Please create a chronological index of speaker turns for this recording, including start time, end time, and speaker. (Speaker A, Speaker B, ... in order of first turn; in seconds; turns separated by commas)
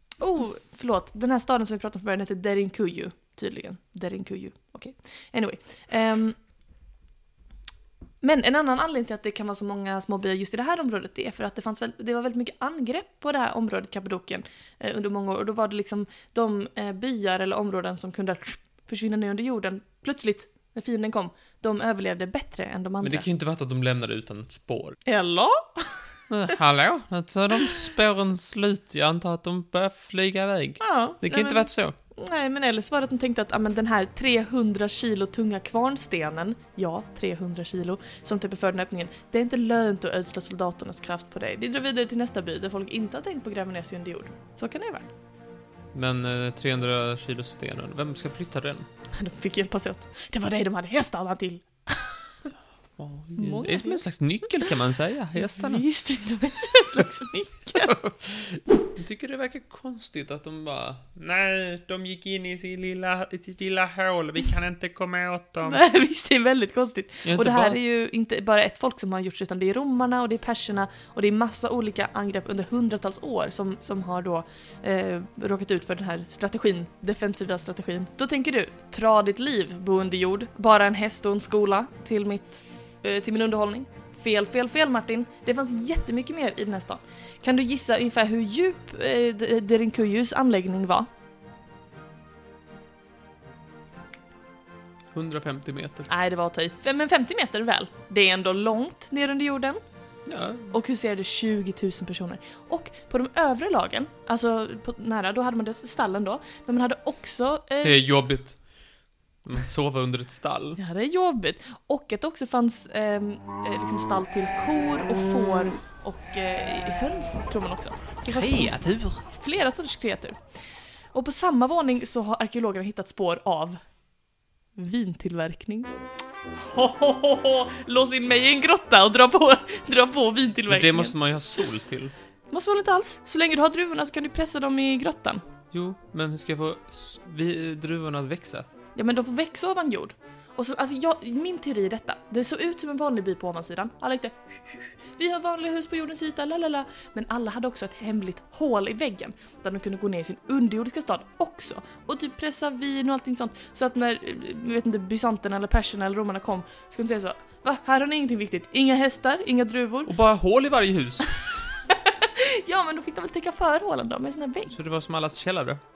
Speaker A: 0.2-6.4, Speaker A: 8.2-23.3, Speaker B: 23.0-25.0, Speaker A: 25.0-26.5, Speaker B: 26.3-31.9, Speaker A: 30.8-45.1, Speaker B: 45.9-48.9, Speaker A: 49.1-52.3, Speaker B: 53.0-55.8, Speaker A: 53.4-54.0, Speaker A: 55.4-58.0, Speaker B: 57.8-65.8, Speaker A: 65.6-91.1, Speaker B: 67.2-67.8, Speaker B: 95.1-96.1, Speaker A: 96.1-99.8, Speaker B: 100.3-100.7, Speaker A: 100.7-108.0, Speaker B: 107.8-108.6, Speaker B: 109.4-110.8, Speaker A: 110.8-120.4, Speaker B: 118.2-119.3, Speaker A: 121.1-123.8, Speaker A: 124.7-125.9, Speaker A: 126.5-131.1, Speaker B: 130.7-132.1, Speaker A: 132.5-135.4, Speaker B: 135.7-138.7, Speaker A: 138.9-160.1, Speaker B: 160.1-161.3, Speaker A: 161.9-164.8, Speaker B: 164.7-165.8